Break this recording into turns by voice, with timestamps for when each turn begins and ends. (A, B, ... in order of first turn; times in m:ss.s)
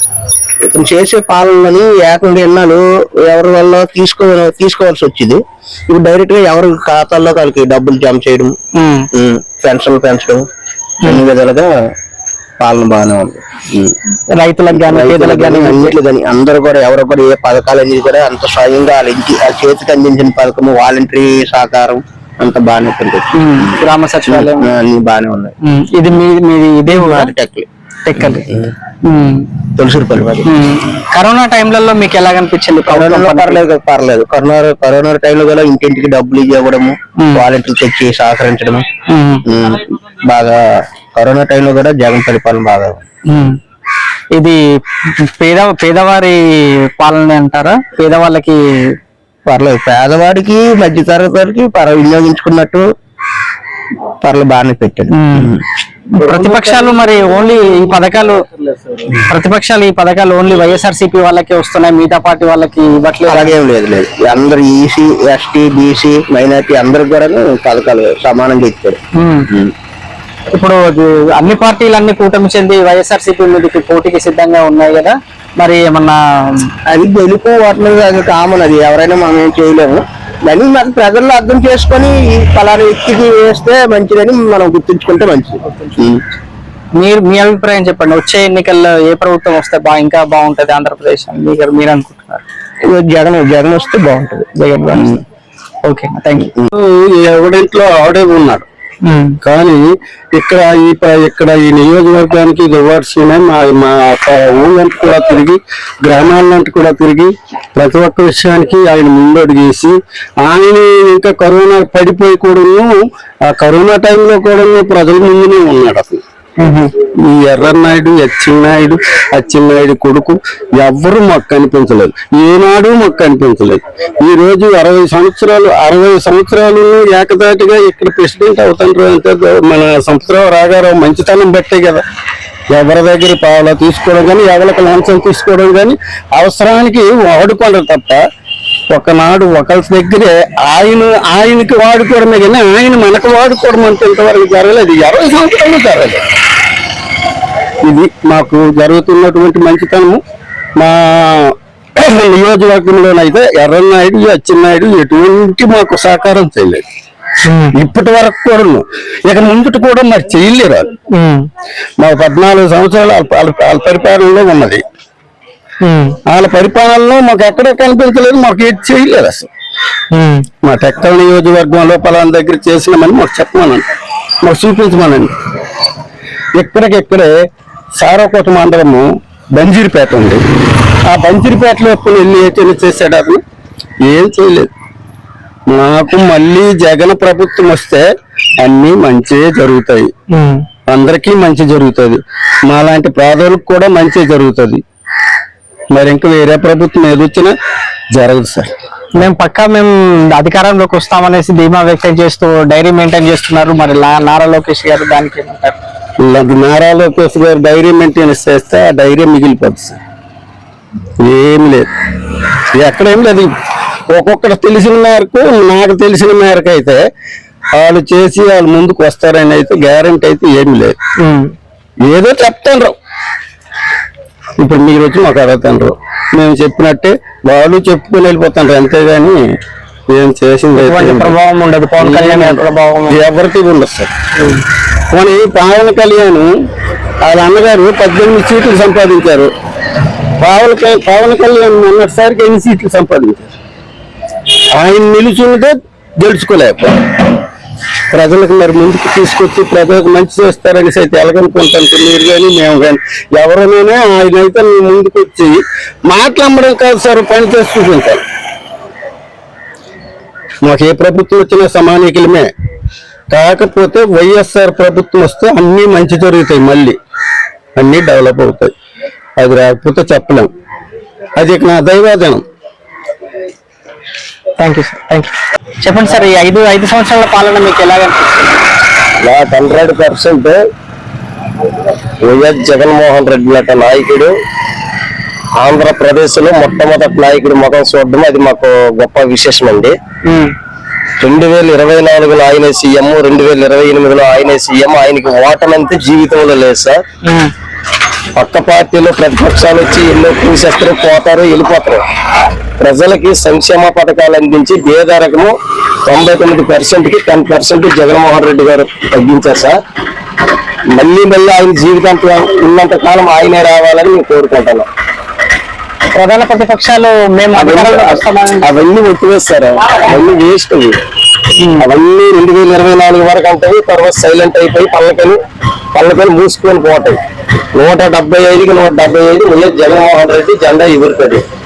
0:00.6-0:08.5 A
0:08.7-0:09.1 B
0:09.1-0:10.4 A
0:11.0-0:11.8 A
0:12.6-0:13.9 A
0:14.3-0:15.9 B
0:14.7-0:23.7 A
0:23.3-0:24.7 B
0:24.3-0:25.5 A
0:25.6-0:27.3 B
0:26.9-0:27.7 A
0:28.0-0:28.5 B
0:28.5-0:28.7 A
0:29.0-0:29.5 B
0:29.8-0:30.5 A
0:30.4-0:33.6 B
0:32.8-0:38.8 A
0:37.2-0:37.4 B
0:39.0-0:39.4 B
0:39.5-0:40.6 A
0:41.1-0:43.0 A
0:43.3-0:43.6 B
0:44.3-0:44.6 B
0:45.2-0:48.6 B
0:49.4-0:52.8 A
0:54.2-0:55.6 A
0:55.1-0:55.5 B
0:56.1-0:58.4 B
0:56.3-0:56.8 C
0:59.2-1:03.5 B
1:03.3-1:09.0 A
1:09.2-1:09.5 B
1:10.5-1:16.7 B
1:16.9-1:26.2 A
1:27.0-1:32.4 B
1:32.8-1:35.2 A
1:34.5-1:35.2 B
1:35.8-1:36.5 B
1:36.7-1:38.6 C
1:39.0-1:39.4 B
1:39.4-1:39.8 C
1:40.3-1:53.0 C
1:53.5-1:56.2 C
1:56.6-1:56.9 B
1:57.2-2:12.0 C
2:12.7-2:18.2 C
2:18.9-2:26.2 C
2:27.8-2:30.2 C
2:30.8-2:36.8 C
2:37.4-2:37.8 B
2:37.7-2:40.9 C
2:41.1-2:41.5 B
2:42.0-2:44.8 C
2:45.8-2:46.2 B
2:46.3-2:49.5 C
2:50.1-2:50.4 B
2:50.6-2:53.8 C
2:54.4-2:55.3 C
2:56.6-2:57.3 C
2:58.0-3:00.4 C
3:01.0-3:03.4 C
3:04.0-3:04.7 C
3:05.7-3:08.0 C
3:08.6-3:10.1 C
3:10.3-3:10.6 B
3:10.9-3:14.8 C
3:15.9-3:17.5 C
3:18.1-3:18.7 C
3:19.2-3:25.8 B
3:26.2-3:30.0 C
3:31.2-3:31.9 C
3:32.7-3:33.5 C
3:34.1-3:37.0 C
3:37.8-3:41.0 C
3:41.2-3:41.5 B
3:42.0-3:43.0 C
3:44.6-3:49.4 C
3:50.1-3:51.4 C
3:50.8-3:53.2 B
3:52.0-3:54.1 C
3:55.1-3:56.5 C
3:57.2-3:59.5 C
4:00.4-4:03.5 C
4:04.7-4:07.0 C
4:08.1-4:18.2 C
4:20.6-4:22.5 C
4:23.3-4:27.0 C
4:27.8-4:28.7 C
4:29.4-4:30.5 C
4:31.4-4:32.4 C
4:34.6-4:38.5 B
4:39.2-4:40.6 D
4:42.2-4:44.3 D
4:45.6-4:49.9 D
4:50.2-4:50.5 B
4:51.2-4:57.0 D
4:57.2-4:57.5 B
4:58.4-5:02.0 D
5:02.8-5:09.8 D
5:10.9-5:14.9 D
5:16.1-5:18.7 B
5:17.5-5:20.9 D
5:21.6-5:21.8 B
5:21.8-5:25.4 D
5:25.9-5:27.2 D
5:27.7-5:31.4 D